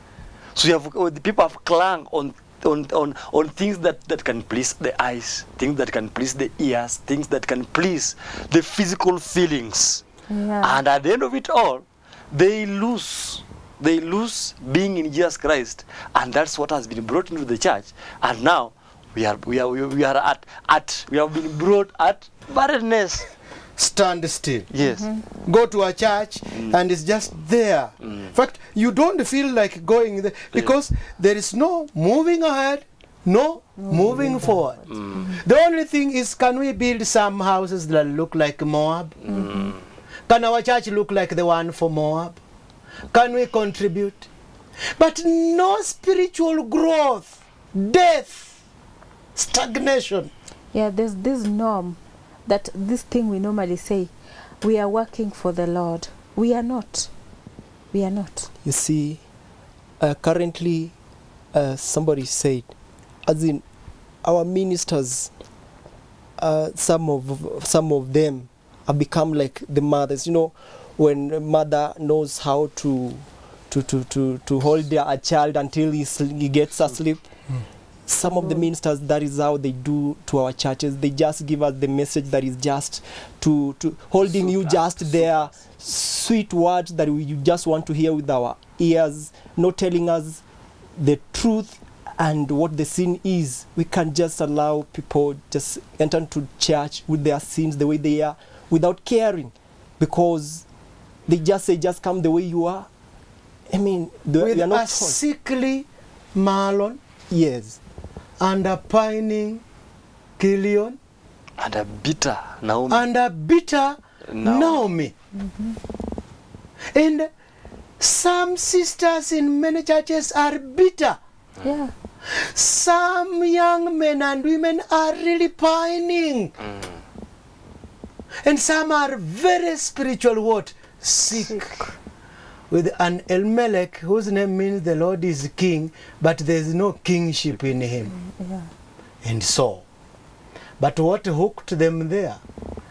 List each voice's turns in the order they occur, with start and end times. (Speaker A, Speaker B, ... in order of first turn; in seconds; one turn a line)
Speaker A: 0.6-10.0
Speaker B: 10.3-10.8
Speaker A: 10.6-23.3
Speaker C: 23.8-24.7
Speaker A: 24.7-25.1
Speaker B: 24.8-25.3
Speaker C: 25.4-39.2
Speaker B: 33.8-35.4
Speaker A: 34.9-35.3
Speaker A: 39.2-39.8
Speaker B: 39.3-39.7
Speaker C: 40.3-42.4
Speaker C: 43.1-44.3
Speaker C: 45.0-48.5
Speaker C: 49.4-50.3
Speaker B: 50.7-57.1
Speaker B: 57.9-58.5
Speaker D: 58.6-59.2
Speaker D: 60.0-60.9
Speaker D: 61.5-62.7
Speaker D: 63.3-63.6
Speaker D: 64.2-65.3
Speaker D: 66.4-77.3
Speaker D: 78.1-90.4
Speaker B: 78.2-78.7
Speaker A: 84.3-85.3
Speaker D: 91.0-100.6
Speaker D: 101.3-102.9
Speaker D: 103.7-105.2
Speaker C: 104.4-107.0
Speaker D: 107.3-107.8
Speaker C: 108.4-109.6
Speaker C: 110.4-111.0
Speaker A: 111.6-113.1
Speaker C: 112.9-115.1
Speaker A: 114.3-114.9
Speaker B: 115.3-115.8
Speaker C: 116.9-117.3
Speaker C: 118.0-121.2
Speaker B: 121.6-121.9
Speaker C: 122.3-126.5
Speaker C: 128.4-131.8
Speaker B: 131.4-132.0
Speaker C: 132.7-138.1
Speaker B: 138.1-138.7
Speaker C: 139.2-139.8
Speaker C: 140.8-142.4